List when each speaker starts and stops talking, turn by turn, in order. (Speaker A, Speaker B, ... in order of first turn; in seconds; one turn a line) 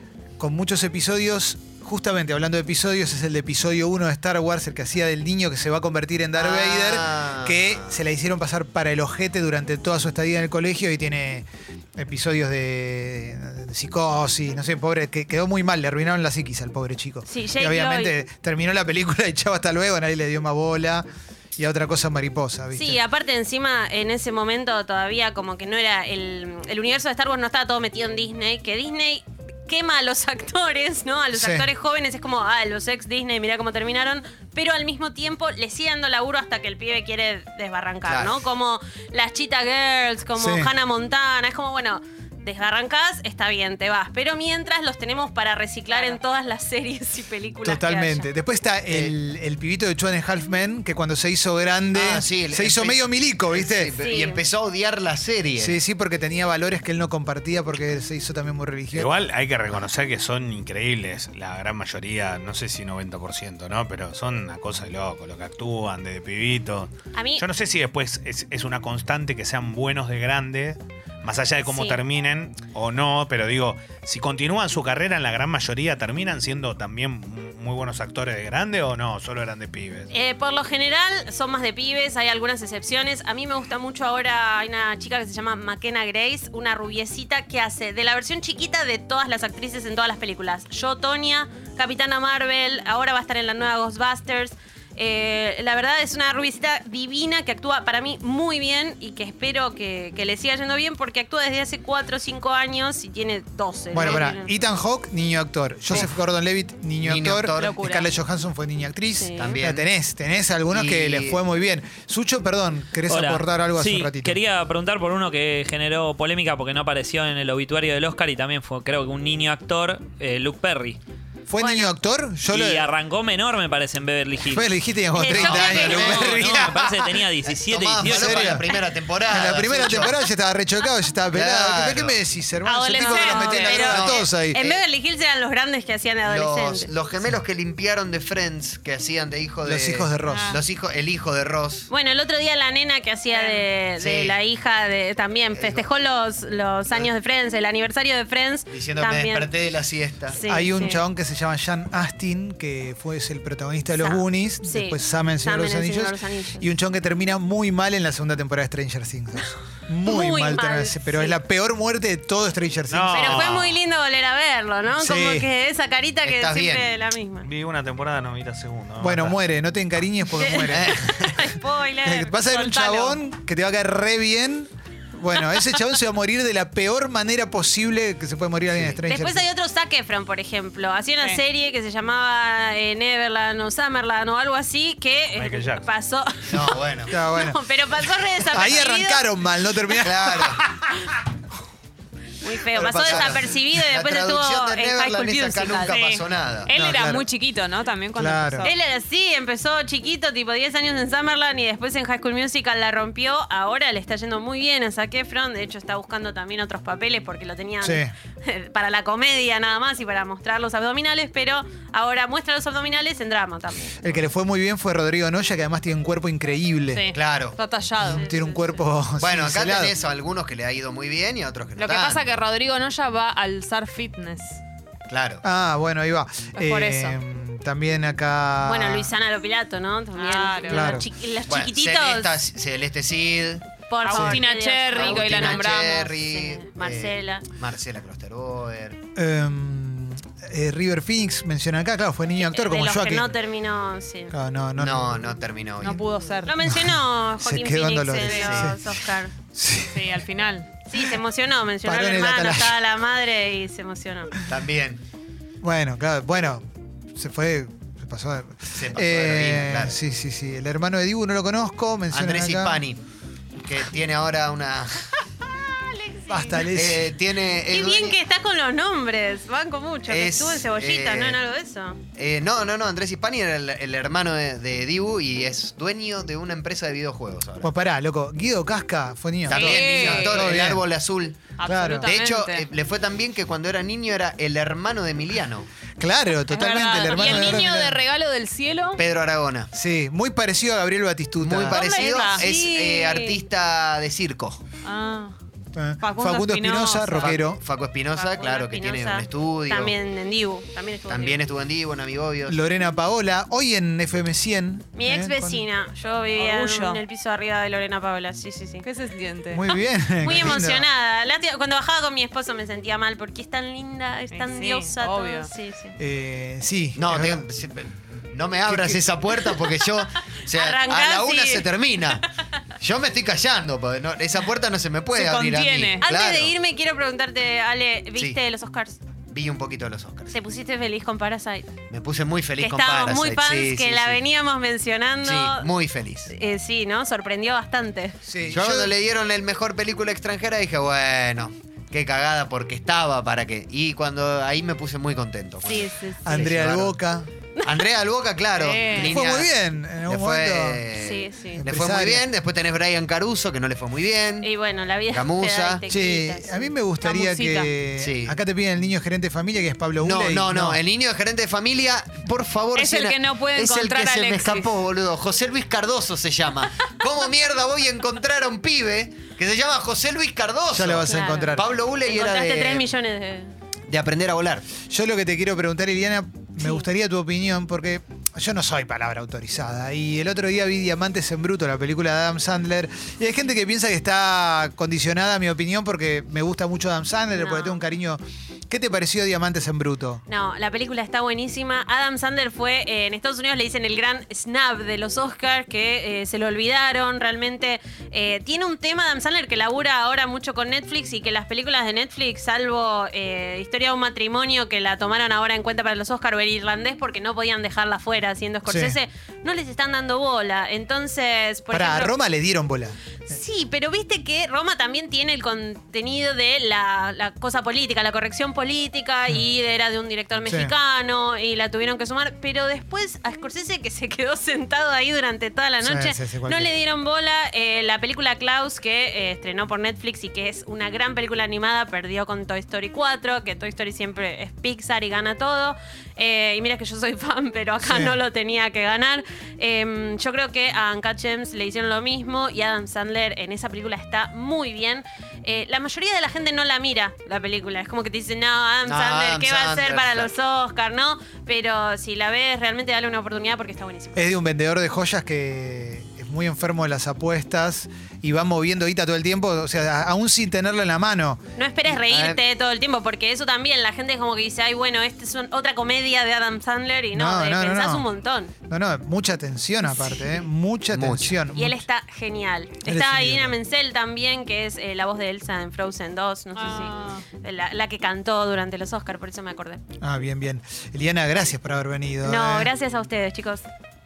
Speaker A: 0.4-23.0
Speaker B: 6.3-7.9
Speaker C: 17.3-18.1
Speaker C: 22.7-48.3
Speaker A: 31.3-31.6
Speaker B: 38.0-38.4
Speaker A: 40.4-40.7
Speaker D: 45.9-46.2
Speaker A: 47.6-53.9
Speaker B: 51.9-55.8
Speaker C: 54.0-54.4
Speaker A: 55.6-59.1
Speaker E: 58.9-80.1
Speaker C: 67.1-67.4
Speaker C: 71.7-72.0
Speaker C: 80.1-104.5
Speaker A: 103.9-114.4
Speaker B: 107.0-107.8
Speaker D: 107.6-108.1
Speaker C: 109.1-109.5
Speaker B: 109.4-109.8
Speaker B: 110.7-111.4
Speaker F: 113.1-121.0
Speaker A: 121.5-122.9
Speaker C: 121.6-121.9
Speaker F: 122.5-124.7
Speaker A: 124.5-127.1
Speaker C: 125.2-126.1
Speaker B: 125.3-126.9
Speaker F: 125.6-128.6
Speaker E: 125.7-126.2
Speaker B: 127.5-130.2
Speaker A: 128.0-128.6
Speaker A: 129.3-134.6
Speaker B: 131.3-132.2
Speaker D: 132.6-133.8
Speaker C: 133.1-136.9
Speaker B: 133.5-134.8
Speaker B: 136.2-141.9
Speaker A: 139.6-140.6
Speaker D: 140.2-140.6
Speaker C: 141.9-149.5
Speaker D: 143.3-143.6
Speaker B: 144.0-144.3
Speaker B: 145.5-145.8
Speaker B: 148.7-150.4
Speaker C: 150.3-151.0
Speaker A: 150.5-163.5
Speaker C: 153.9-156.7
Speaker C: 160.0-161.3
Speaker E: 162.9-163.7
Speaker C: 163.1-167.5
Speaker A: 165.0-165.5
Speaker B: 166.2-166.9
Speaker E: 167.4-169.3
Speaker A: 169.0-171.0
Speaker C: 170.4-173.2
Speaker B: 170.7-171.4
Speaker A: 172.0-179.5
Speaker C: 179.1-189.3
Speaker E: 185.4-185.9
Speaker B: 186.5-187.1
Speaker A: 187.1-187.6
Speaker A: 188.5-190.9
Speaker B: 190.0-190.6
Speaker C: 192.4-196.0
Speaker B: 192.7-196.7
Speaker A: 192.8-193.4
Speaker D: 195.9-198.8
Speaker A: 196.7-197.3
Speaker A: 198.1-198.7
Speaker C: 198.6-214.1
Speaker A: 207.8-208.1
Speaker A: 214.0-217.1
Speaker D: 216.9-218.7
Speaker B: 217.1-217.6
Speaker A: 218.0-219.9
Speaker B: 219.2-222.3
Speaker D: 221.8-224.6
Speaker B: 225.1-225.4
Speaker A: 225.4-229.1
Speaker D: 226.5-227.2
Speaker C: 228.6-232.4
Speaker D: 230.2-231.0
Speaker A: 230.7-231.1
Speaker B: 231.4-233.6
Speaker C: 233.9-237.4
Speaker D: 234.0-236.1
Speaker A: 234.1-234.4
Speaker B: 234.9-239.0
Speaker A: 239.2-243.3
Speaker C: 242.5-244.3
Speaker A: 244.3-245.2
Speaker B: 244.8-246.1
Speaker D: 245.8-246.5
Speaker C: 246.4-249.3
Speaker A: 246.6-250.2
Speaker D: 248.2-248.6
Speaker B: 248.4-248.7
Speaker D: 249.9-250.7
Speaker C: 250.9-254.3
Speaker A: 251.8-252.8
Speaker B: 254.5-255.0
Speaker A: 255.6-262.8
Speaker B: 258.7-260.0
Speaker B: 262.1-263.0
Speaker B: 263.6-265.1
Speaker C: 266.1-266.6
Speaker A: 266.3-267.1
Speaker B: 266.7-268.2
Speaker C: 267.7-272.0
Speaker B: 270.1-271.4
Speaker B: 272.2-277.7
Speaker A: 277.6-280.8
Speaker B: 279.5-281.5
Speaker D: 279.5-280.6
Speaker D: 281.6-282.6
Speaker A: 281.6-282.1
Speaker B: 282.0-285.7
Speaker A: 286.0-288.0
Speaker D: 286.5-289.0
Speaker B: 287.1-287.6
Speaker B: 289.0-289.7
Speaker A: 289.7-291.9
Speaker B: 291.4-294.6
Speaker D: 291.7-292.4
Speaker C: 292.0-293.4
Speaker D: 294.8-295.3
Speaker A: 295.7-297.6
Speaker D: 296.0-297.4
Speaker B: 297.2-299.9
Speaker C: 298.1-301.4
Speaker B: 301.1-302.6
Speaker A: 302.5-305.6
Speaker C: 304.9-308.9
Speaker D: 306.4-307.0
Speaker D: 308.8-309.6
Speaker A: 309.5-310.9
Speaker C: 310.2-316.0
Speaker D: 314.3-315.5
Speaker A: 316.0-317.4
Speaker B: 317.0-322.3
Speaker A: 318.7-319.1
Speaker C: 320.5-321.7
Speaker B: 322.8-326.6
Speaker D: 325.1-326.0
Speaker C: 326.0-329.0
Speaker B: 329.3-330.4
Speaker C: 330.3-331.7
Speaker B: 331.9-334.2
Speaker C: 332.6-335.7
Speaker B: 335.2-336.3
Speaker C: 336.3-338.2
Speaker A: 338.2-338.9
Speaker B: 338.5-346.9
Speaker C: 345.6-346.5
Speaker A: 346.2-347.3
Speaker C: 347.6-347.9
Speaker B: 347.6-349.5
Speaker D: 348.6-349.2
Speaker A: 348.9-350.8
Speaker B: 350.1-354.5
Speaker C: 350.9-351.6
Speaker A: 351.6-352.2
Speaker C: 354.4-356.7
Speaker B: 355.1-355.8
Speaker A: 355.9-360.8
Speaker D: 357.0-357.7
Speaker B: 358.0-358.3
Speaker B: 360.0-372.9
Speaker D: 362.7-364.7
Speaker A: 370.7-371.7
Speaker C: 371.0-373.5
Speaker B: 373.9-374.7
Speaker A: 374.8-390.2
Speaker C: 376.6-376.9
Speaker C: 387.4-387.8
Speaker C: 390.3-412.1
Speaker A: 408.6-409.0
Speaker A: 411.7-413.0
Speaker C: 413.3-454.3
Speaker A: 420.4-420.7
Speaker A: 425.8-426.8
Speaker A: 437.8-438.2
Speaker B: 448.8-450.3
Speaker A: 454.1-461.4
Speaker C: 461.6-468.5
Speaker B: 461.9-462.4
Speaker A: 467.1-468.1
Speaker A: 468.6-471.8
Speaker C: 469.9-470.4
Speaker B: 470.9-471.3
Speaker C: 471.5-479.8
Speaker A: 472.8-473.5
Speaker D: 476.6-477.2
Speaker A: 480.0-482.7
Speaker C: 482.2-483.6